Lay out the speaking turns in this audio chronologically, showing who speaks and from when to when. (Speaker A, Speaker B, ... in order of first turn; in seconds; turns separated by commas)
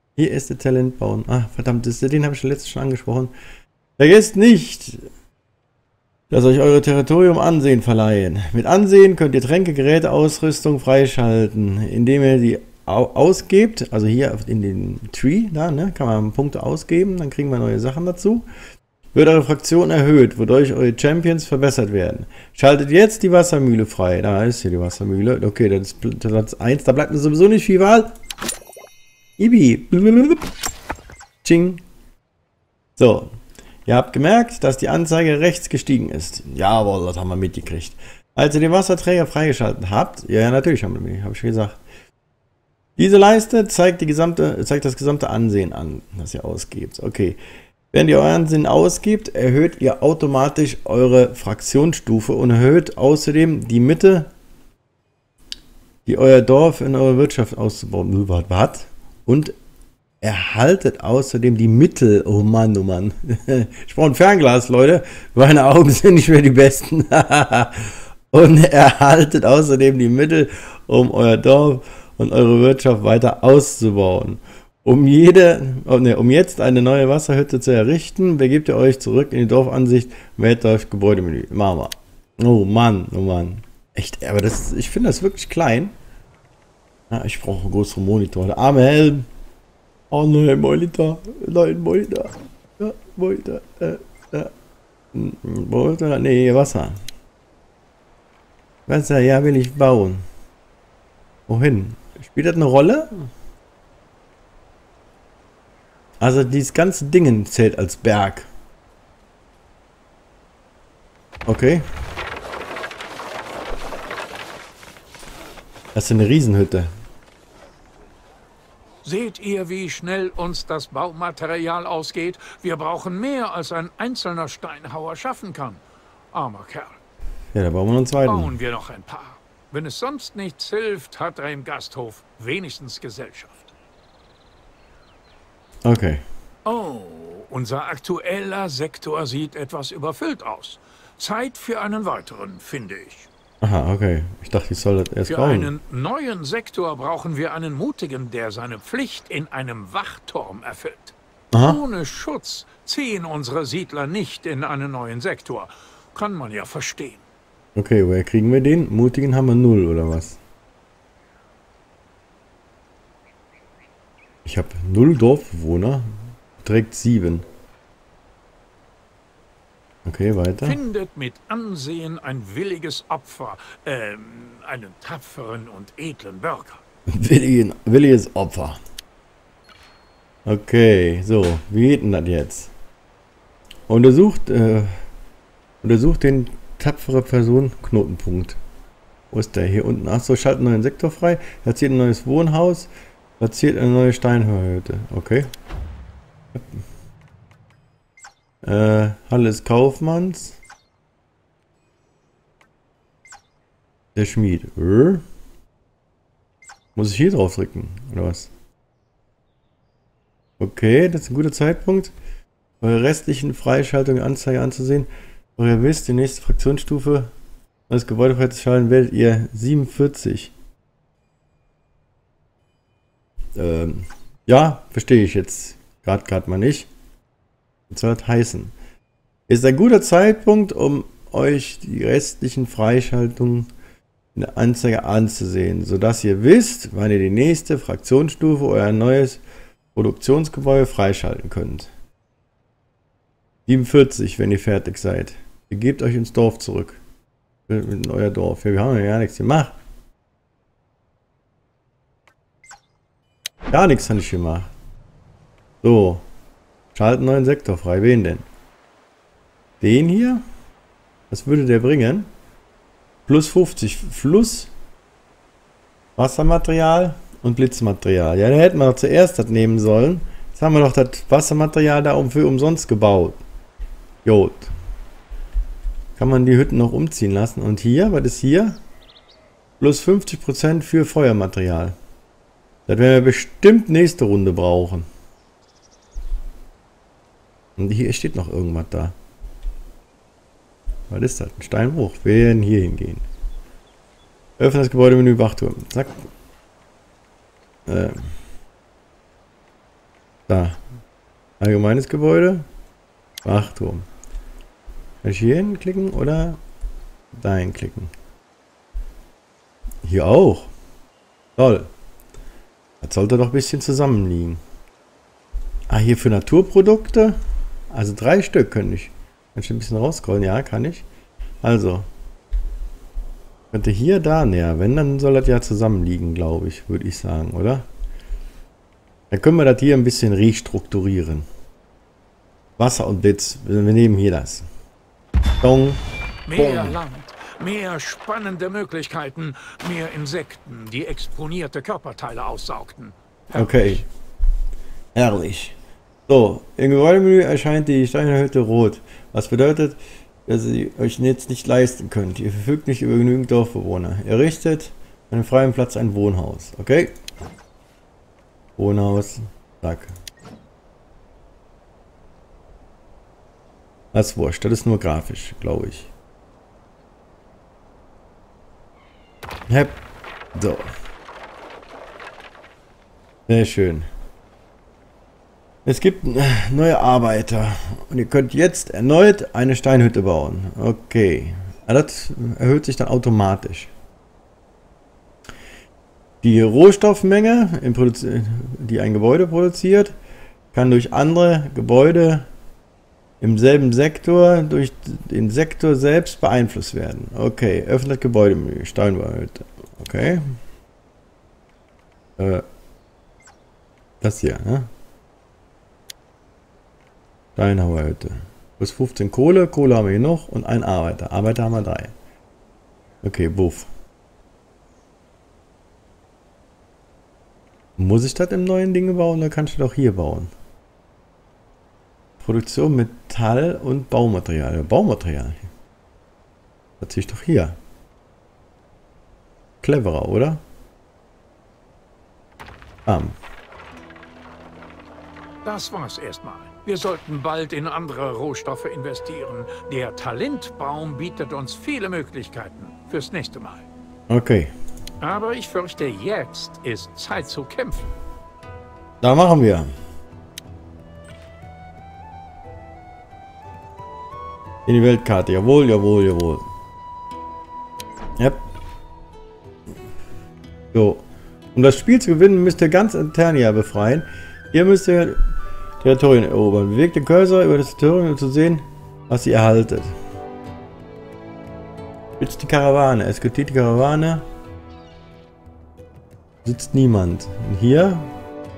Speaker A: 0.2-3.3, Speaker A: 4.0-5.1, Speaker A: 6.3-18.5, Speaker A: 19.1-28.1, Speaker A: 29.4-30.5, Speaker A: 31.4-31.8, Speaker A: 33.0-33.4, Speaker A: 33.9-41.8, Speaker A: 43.0-47.4, Speaker A: 47.9-54.3, Speaker A: 56.0-59.5, Speaker A: 60.2-86.0, Speaker A: 87.1-89.3, Speaker A: 90.1-94.5, Speaker A: 95.1-97.0, Speaker A: 98.9-100.2, Speaker A: 101.5-103.3, Speaker A: 106.2-108.5, Speaker A: 111.5-111.9, Speaker A: 116.0-116.9, Speaker B: 119.0-127.0, Speaker A: 127.5-128.5, Speaker B: 128.3-133.7, Speaker A: 135.9-136.2, Speaker B: 136.7-143.3, Speaker A: 143.6-145.7, Speaker B: 145.3-157.2, Speaker A: 151.5-151.8, Speaker A: 157.8-160.4, Speaker A: 164.5-166.1, Speaker A: 166.6-167.4, Speaker A: 170.1-170.8, Speaker B: 170.6-176.8, Speaker A: 177.1-178.8, Speaker A: 180.5-182.7, Speaker A: 183.9-184.9, Speaker A: 185.8-188.6, Speaker A: 189.3-195.5, Speaker A: 196.5-196.8, Speaker A: 198.6-200.6, Speaker A: 204.2-205.2, Speaker A: 207.0-208.5, Speaker A: 210.6-212.1, Speaker A: 212.8-217.3, Speaker A: 217.9-220.5, Speaker A: 223.6-226.9, Speaker A: 227.9-228.7, Speaker A: 229.5-233.7, Speaker A: 234.3-239.4, Speaker A: 239.9-241.9, Speaker A: 243.7-247.0, Speaker A: 247.7-249.8, Speaker A: 253.7-254.7, Speaker A: 255.8-256.3, Speaker A: 256.9-258.5, Speaker A: 259.8-260.4, Speaker A: 261.3-262.3, Speaker A: 263.3-264.7, Speaker A: 266.2-273.4, Speaker A: 274.2-274.7, Speaker A: 276.2-278.8, Speaker A: 279.8-282.0, Speaker A: 282.9-285.1, Speaker A: 287.8-289.1, Speaker A: 291.1-293.2, Speaker A: 294.6-296.2, Speaker A: 297.9-298.3, Speaker A: 300.5-300.8, Speaker A: 301.6-302.7, Speaker A: 303.4-304.1, Speaker A: 305.2-306.6, Speaker A: 307.3-308.1, Speaker A: 310.0-310.7, Speaker A: 311.6-311.9, Speaker A: 313.0-314.6, Speaker A: 315.9-317.4, Speaker A: 317.9-321.1, Speaker A: 321.6-322.1, Speaker A: 323.7-327.9, Speaker A: 329.3-331.5, Speaker A: 332.8-334.6, Speaker A: 335.6-336.0, Speaker B: 336.5-344.1, Speaker A: 336.6-337.0, Speaker A: 343.5-344.0, Speaker A: 345.1-345.8, Speaker A: 346.3-357.1, Speaker A: 358.8-360.1, Speaker A: 364.1-366.1, Speaker A: 369.7-370.0, Speaker A: 370.6-370.9, Speaker A: 373.5-374.1, Speaker A: 375.9-383.9, Speaker A: 386.4-390.2, Speaker A: 390.7-392.5, Speaker A: 393.4-400.5, Speaker A: 402.4-402.6, Speaker A: 404.2-404.9, Speaker A: 407.6-412.1, Speaker A: 413.2-413.9, Speaker A: 418.0-420.5, Speaker A: 422.4-425.7, Speaker A: 427.0-427.8, Speaker A: 429.8-430.6, Speaker A: 433.1-433.4, Speaker B: 435.6-443.9, Speaker A: 444.3-444.7, Speaker B: 445.2-448.1, Speaker A: 449.2-449.9, Speaker A: 454.9-456.6, Speaker A: 460.9-461.2, Speaker A: 461.8-465.4, Speaker A: 466.0-470.1, Speaker A: 472.4-474.4, Speaker A: 476.6-478.3